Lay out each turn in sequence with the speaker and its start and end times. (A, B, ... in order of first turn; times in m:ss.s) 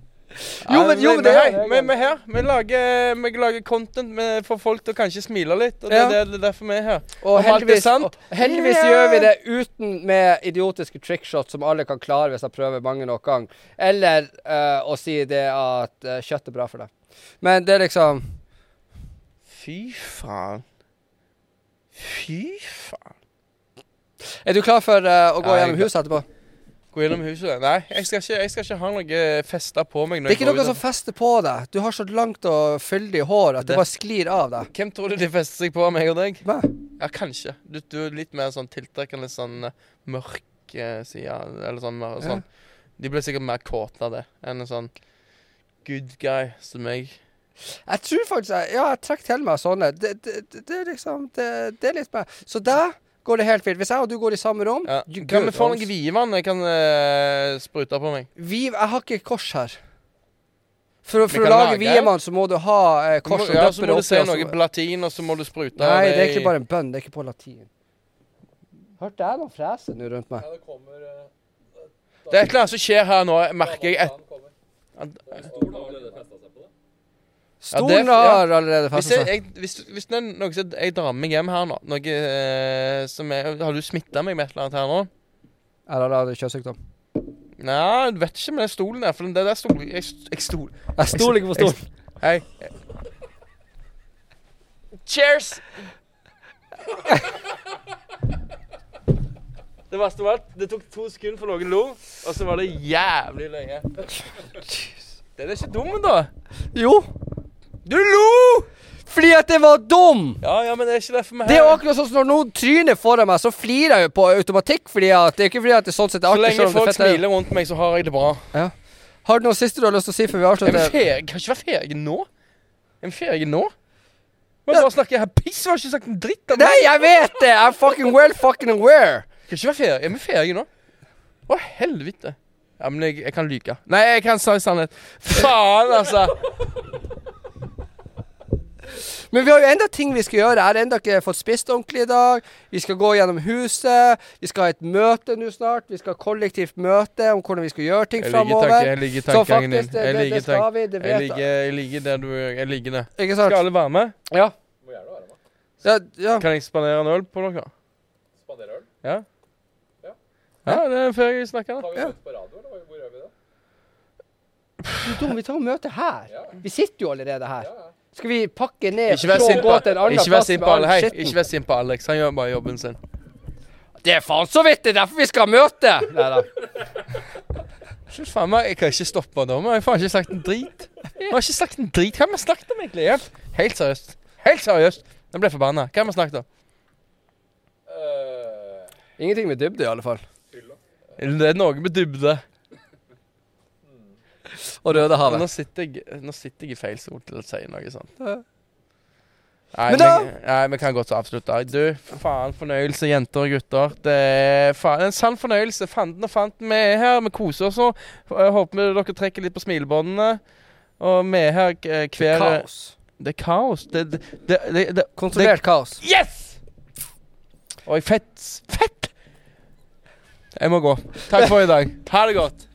0:00.5-0:01.9 A
0:00.6-0:09.3 B
0:05.9-0:06.2 A
0:07.2-0:16.9 A
0:17.4-0:18.2 A
0:19.5-0:20.6 B
0:21.9-0:23.1 B
0:24.4-0:26.2 A
0:25.4-0:25.9 B
0:26.9-0:30.8 B
0:30.3-0:34.7 A
0:34.7-0:36.4 B
0:36.4-0:36.7 A
0:37.0-0:42.4 B
0:43.0-0:44.9 B
0:45.8-0:47.2 B
0:47.9-0:55.9 A
0:54.8-0:58.3 B
0:58.4-0:59.8 A
1:01.0-1:04.5 A
1:01.3-1:02.1 B
1:03.2-1:06.5 B
1:05.8-1:07.7 A
1:09.0-1:10.5 A
1:10.4-1:11.3 C
1:12.3-1:14.1 B
1:13.6-1:14.5 C
1:15.0-1:15.6 B
1:15.3-1:16.7 C
1:17.6-1:19.3 A
1:17.7-1:25.1 B
1:25.9-1:26.8 A
1:27.6-1:32.7 B
1:31.0-1:31.8 A
1:35.0-1:35.6 B
1:39.9-1:44.1 B
1:45.4-1:46.3 B
1:46.7-1:47.1 A
1:47.8-1:48.7 B
1:49.1-1:50.4 A
1:50.4-1:51.8 B
1:51.4-1:57.2 A
1:56.3-1:58.4 B
1:59.2-2:00.9 A
2:00.6-2:02.3 B
2:03.0-2:03.7 B
2:04.6-2:07.0 B
2:06.5-2:09.2 A
2:09.5-2:10.7 B
2:11.5-2:16.5 B
2:18.9-2:31.4 A
2:28.2-2:34.1 B
2:33.2-2:33.6 A
2:34.8-2:35.4 C
2:35.8-2:36.4 A
2:36.4-2:37.7 B
2:38.4-2:38.9 C
2:40.6-2:41.9 B
2:41.8-2:43.3 C
2:45.0-2:51.4 A
2:49.1-2:53.0 B
2:54.0-2:56.5 A
2:58.1-3:06.4 B
3:07.9-3:08.9 C
3:09.2-3:10.2 A
3:11.2-3:12.4 B
3:14.6-3:15.5 A
3:14.9-3:18.1 B
3:19.7-3:30.4 B
3:19.9-3:20.3 A
3:31.0-3:32.6 B
3:32.2-3:32.9 A
3:33.2-3:36.6 B
3:35.2-3:36.0 A
3:37.8-3:39.1 B
3:40.6-3:42.6 B